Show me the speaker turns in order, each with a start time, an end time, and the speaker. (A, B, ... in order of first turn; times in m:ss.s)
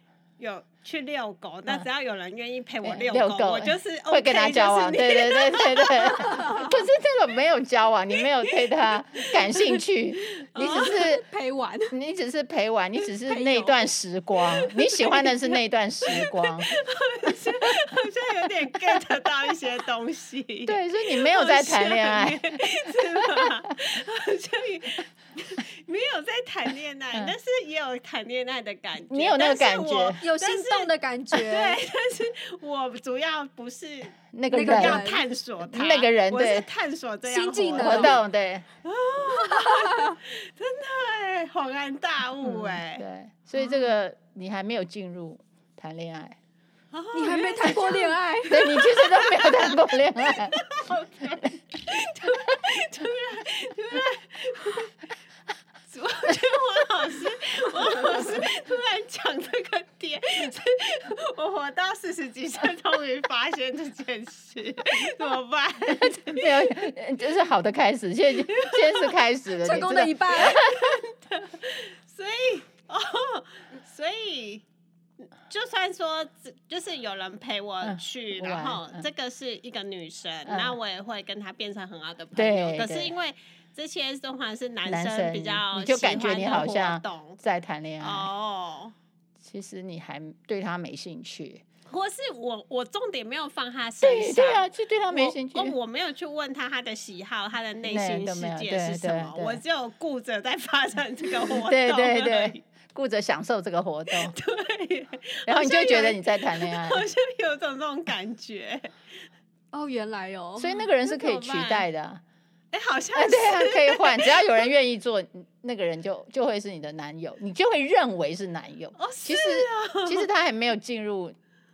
0:00.4-0:06.4 A
0:02.8-0:11.2 B
0:06.2-0:06.8 C
0:08.4-0:09.8 A
0:10.5-0:11.2 A
0:10.6-0:12.0 C
0:11.9-0:16.8 B
0:13.2-0:13.7 C
0:15.0-0:15.4 A
0:16.1-0:30.9 A
0:20.7-0:23.5 B
0:29.1-0:30.2 B
0:30.2-0:31.8 C
0:31.4-0:38.2 A
0:34.3-0:36.7 B
0:34.5-0:35.2 C
0:37.3-0:38.2 C
0:37.8-0:38.7 B
0:38.8-0:43.0 A
0:39.3-0:40.2 C
0:42.4-0:46.4 B
0:46.9-0:48.1 A
0:47.1-0:49.1 C
0:48.5-0:50.8 B
0:49.1-0:49.8 A
0:50.3-0:55.0 A
0:55.9-1:06.8 A
1:05.9-1:10.9 B
1:08.5-1:09.2 A
1:09.6-1:10.6 C
1:10.4-1:14.6 A
1:15.5-1:27.4 A
1:17.8-1:19.1 B
1:20.5-1:20.8 B
1:22.4-1:23.1 B
1:24.9-1:28.3 B
1:28.0-1:28.9 A
1:29.4-1:31.6 B
1:31.9-1:42.6 A
1:34.0-1:35.8 B
1:37.8-1:39.6 B
1:41.4-1:44.4 B
1:44.1-1:48.9 A
1:45.5-1:47.1 B
1:49.7-1:50.8 C
1:50.6-1:52.2 B
1:51.0-1:51.9 A
1:52.7-1:54.5 A
1:53.1-2:01.4 B
1:59.0-2:00.3 A